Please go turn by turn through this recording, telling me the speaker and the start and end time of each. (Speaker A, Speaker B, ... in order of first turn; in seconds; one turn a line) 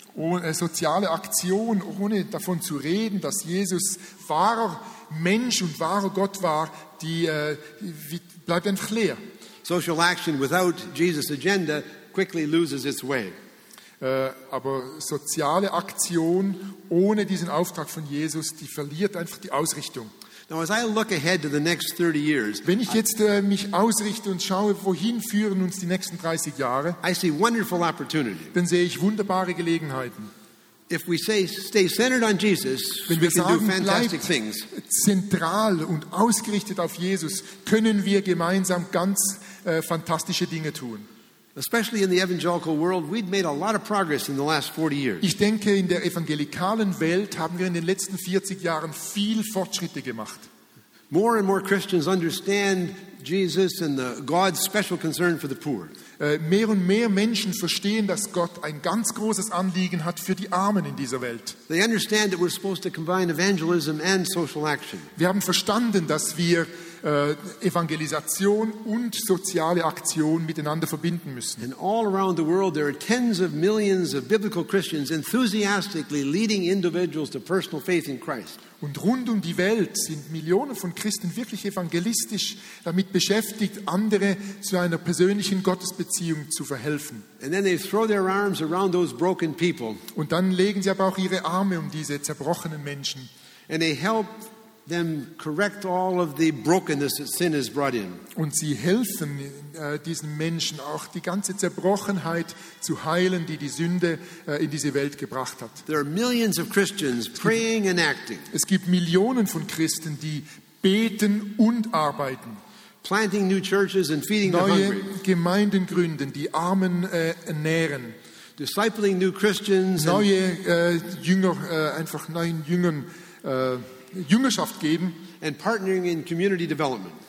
Speaker A: 0.1-9.2
Speaker B: 9.7-13.3
Speaker A: 14.0-20.1
Speaker B: 20.5-22.7
Speaker A: 22.6-27.0
Speaker B: 27.0-28.5
Speaker A: 28.5-30.3
Speaker B: 30.9-34.7
Speaker A: 33.1-41.1
Speaker B: 41.6-45.3
Speaker A: 45.2-50.5
Speaker B: 51.1-55.9
Speaker A: 56.2-61.6
Speaker B: 61.7-65.1
Speaker A: 65.2-71.7
Speaker B: 71.6-78.6
Speaker A: 78.8-87.2
Speaker B: 87.4-90.0
Speaker A: 90.1-93.3
Speaker B: 93.7-98.2
Speaker A: 98.3-105.8
Speaker B: 105.9-108.5
Speaker A: 108.5-112.6
Speaker B: 113.0-115.1
Speaker A: 114.4-118.2
Speaker B: 118.6-120.2
Speaker A: 120.0-125.2
Speaker B: 125.4-127.2